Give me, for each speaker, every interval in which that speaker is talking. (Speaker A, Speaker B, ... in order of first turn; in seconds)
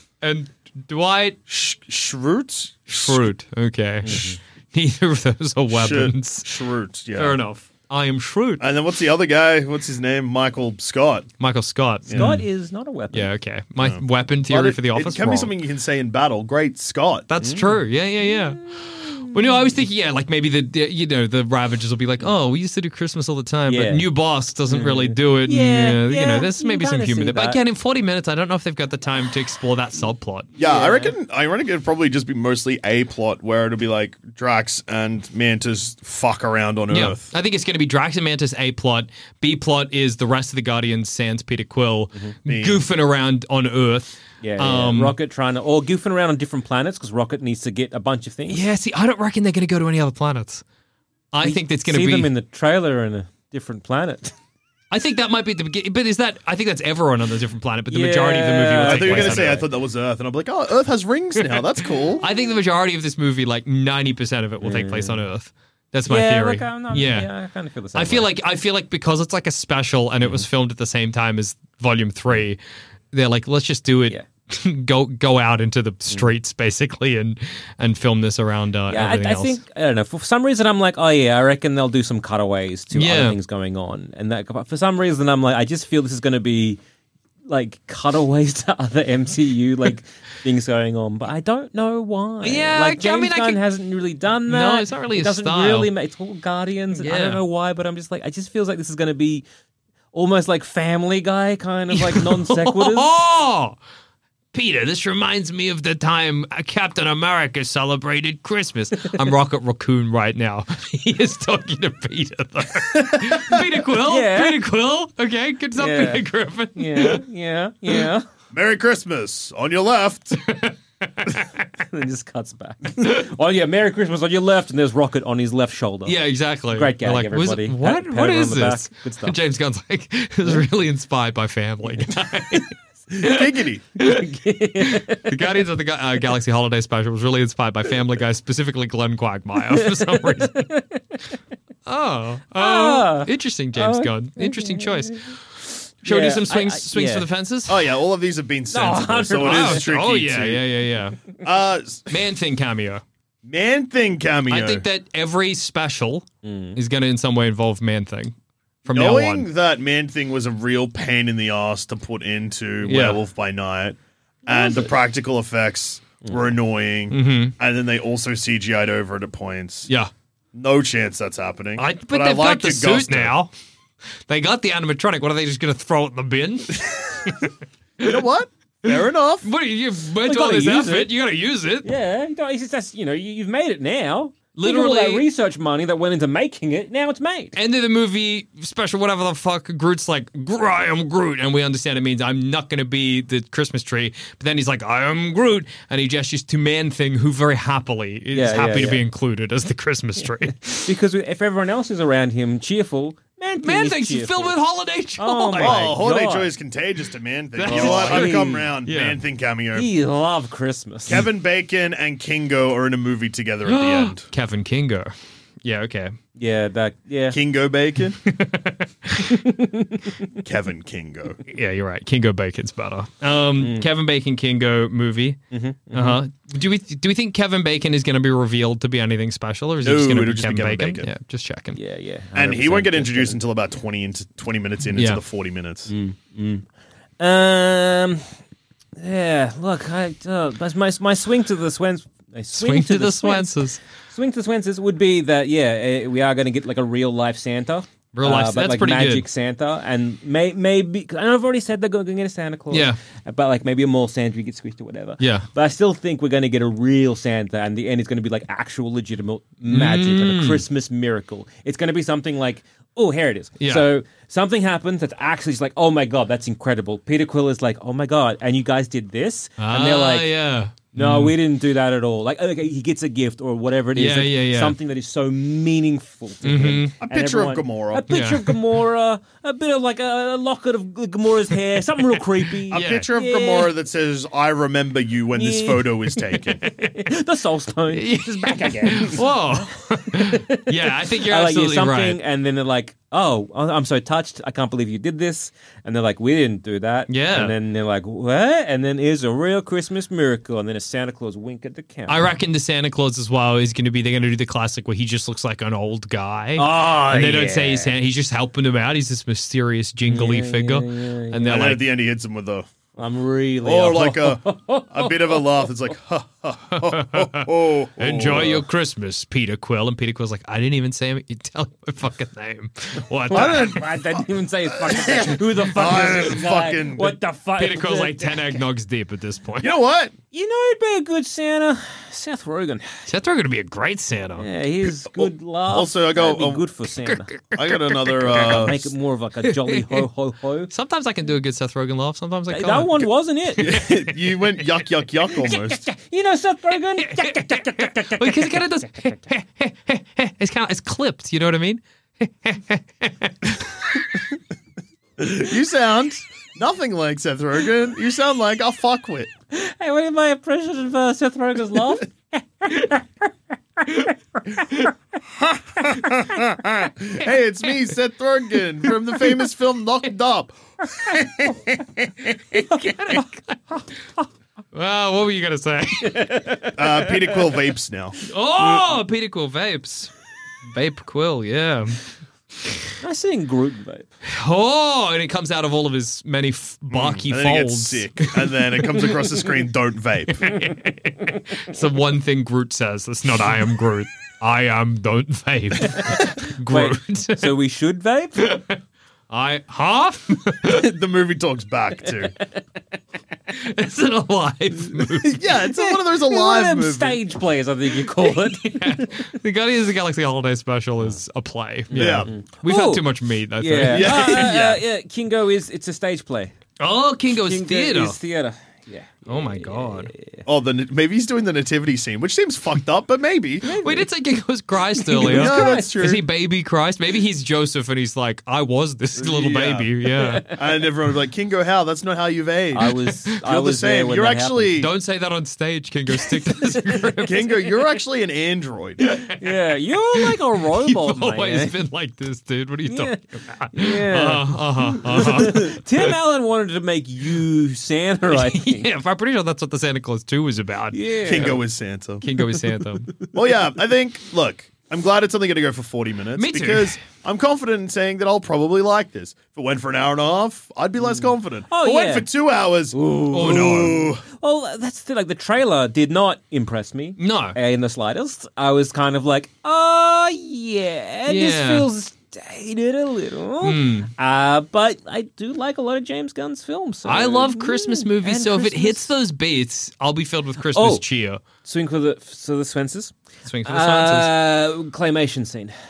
Speaker A: 0.2-1.4, 2.9-6.5, 7.2-8.6, 11.4-12.4, 13.1-15.5, 17.3-30.5, 36.9-45.1, 48.5-50.6, 51.3-52.3, 54.9-59.6, 61.5-67.3, 67.9-72.6, 73.1-79.6, 82.9-83.4, 92.4-93.6, 94.5-95.9, 96.9-97.4, 101.9-103.8, 104.5-117.2, 120.4-121.6, 126.0-140.7, 141.8-145.4, 146.0-147.9, 149.4-151.2, 152.1-153.0, 154.5-158.3, 158.8-159.4, 162.8-163.2, 167.1-167.5, 171.8-173.5, 174.3-178.2, 178.8-181.9, 184.6-185.2, 187.6-200.9, 203.6-205.9, 207.6-209.2, 213.7-216.1, 218.2-219.4, 221.4-225.4, 225.9-231.8, 234.9-235.2, 242.5-243.8, 248.1-249.2, 252.7-253.0, 255.2-255.5, 259.7-260.6, 263.6-263.9, 269.6-271.4, 273.9-274.8, 276.4-276.9, 278.1-278.6, 282.7-283.1, 287.9-292.2, 297.1-297.5, 302.1-311.8, 316.7-323.9, 327.6-329.7, 333.1-334.4, 337.0-338.7, 339.4-340.0, 340.7-343.1, 347.0-354.0, 372.5-373.8, 374.7-376.3, 378.2-380.1, 380.6-382.0, 384.2-389.2, 390.4-397.6, 398.4-398.8, 399.3-400.9, 403.5-405.4, 408.2-414.5, 416.8-418.2, 419.3-420.1, 423.8-430.4, 434.8-437.5, 440.1-446.1, 448.3-451.6, 452.2-453.1, 456.4-456.9, 463.3-464.0, 467.2-467.6, 471.3-471.9, 473.6-474.1, 477.1-481.4, 483.5-484.3
Speaker B: 1.5-3.2, 5.7-7.4, 8.6-11.3, 12.1-12.4, 13.8-17.3, 30.6-37.3, 42.5-42.9, 58.8-62.2, 118.5-120.4, 133.2-133.8, 147.7-150.6, 151.4-152.1, 153.4-154.8, 158.9-169.9, 170.5-173.3, 178.0-179.5, 205.5-209.9, 211.1-214.2, 217.3-218.2, 220.3-221.4, 229.8-231.1, 232.3-235.9, 277.0-278.1, 282.7-286.7, 311.4-312.7, 313.6-318.6, 323.3-324.1, 324.8-327.2, 329.6-330.1, 335.1-336.6, 337.5-338.9, 343.6-345.9, 355.2-359.3, 365.7-370.6, 376.7-378.2, 386.9-390.6, 400.6-402.3, 405.2-407.2, 411.9-412.3, 413.8-414.8, 420.4-423.7, 425.2-426.2, 429.1-429.9, 430.5-434.9, 437.2-439.1, 451.2-452.2, 453.3-464.2
Speaker C: 4.0-4.4, 12.1-13.3, 17.4-17.7, 18.6-19.6, 23.7-24.1, 24.7-27.6, 30.6-31.1, 44.4-48.6, 51.4-54.3, 57.9-59.6, 64.6-65.2, 66.0-68.3, 78.9-86.8, 87.5-99.4, 100.1-103.1, 112.9-114.6, 115.8-116.2, 116.7-118.2, 121.8-126.1, 126.7-129.3, 134.0-135.4, 139.6-141.2, 142.6-145.3, 146.0-147.3, 148.7-149.9, 156.4-156.8, 164.5-164.8, 180.2-181.1, 181.8-187.6, 198.3-199.0, 200.2-204.5, 205.2-206.5, 207.7-208.7, 209.7-211.2, 216.3-217.4, 219.2-220.2, 223.6-223.9, 225.5-226.2, 231.7-233.4, 235.9-236.7, 237.2-238.3, 239.0-270.3, 270.9-283.7, 285.3-302.3, 306.6-307.9, 310.1-311.6, 312.9-315.7, 323.3-328.6, 330.3-332.9, 334.4-337.3, 338.3-340.7, 342.5-343.9, 345.3-349.1, 359.5-363.1, 363.8-364.9, 371.1-371.8, 372.5-373.2, 376.0-377.4, 383.0-384.1, 395.8-398.4, 405.7-409.3, 411.9-413.1, 413.6-416.5, 417.3-420.4, 423.6-424.1, 424.9-426.1, 430.1-430.6, 432.7-434.8, 436.3-437.2, 439.1-441.7, 442.9-448.9, 450.9-451.6, 461.1-462.3, 462.9-479.1, 480.7-481.0, 481.6-485.8